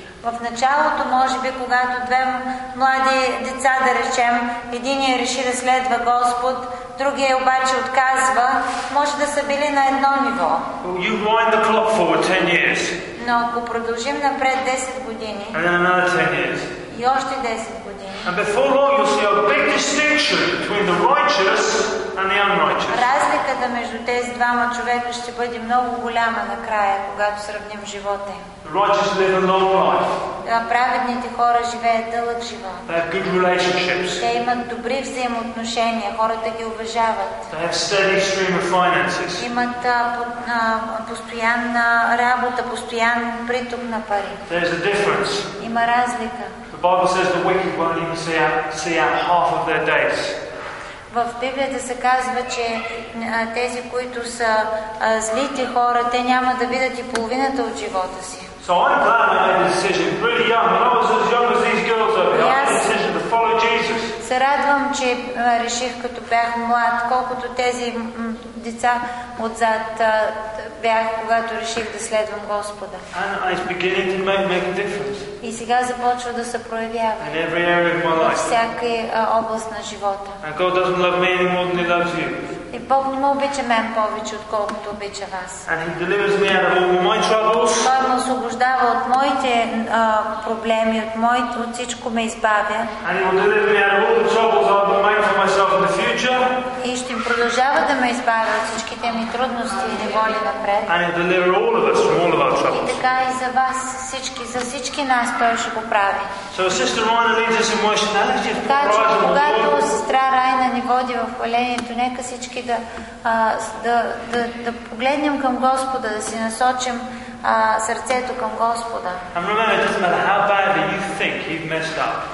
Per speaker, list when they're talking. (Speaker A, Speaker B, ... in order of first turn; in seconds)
Speaker A: 0.2-10.7, 13.2-15.6, 16.9-18.3, 22.9-28.4, 30.4-32.9, 34.2-37.5, 39.4-44.4, 45.6-46.6, 51.1-58.5, 62.3-62.9, 64.2-73.0, 75.4-77.3, 78.1-80.4, 82.7-85.7, 87.8-92.9, 96.8-100.9, 102.7-106.3, 108.6-119.2
Speaker B: 10.8-13.0, 15.5-16.7, 18.2-23.1, 28.6-30.1, 32.9-34.2, 37.5-39.5, 44.5-45.5, 46.7-50.4, 58.6-64.2, 73.1-75.3, 77.2-78.6, 80.4-82.5, 85.7-87.9, 93.0-96.6, 100.9-103.0, 106.5-109.8, 119.3-122.2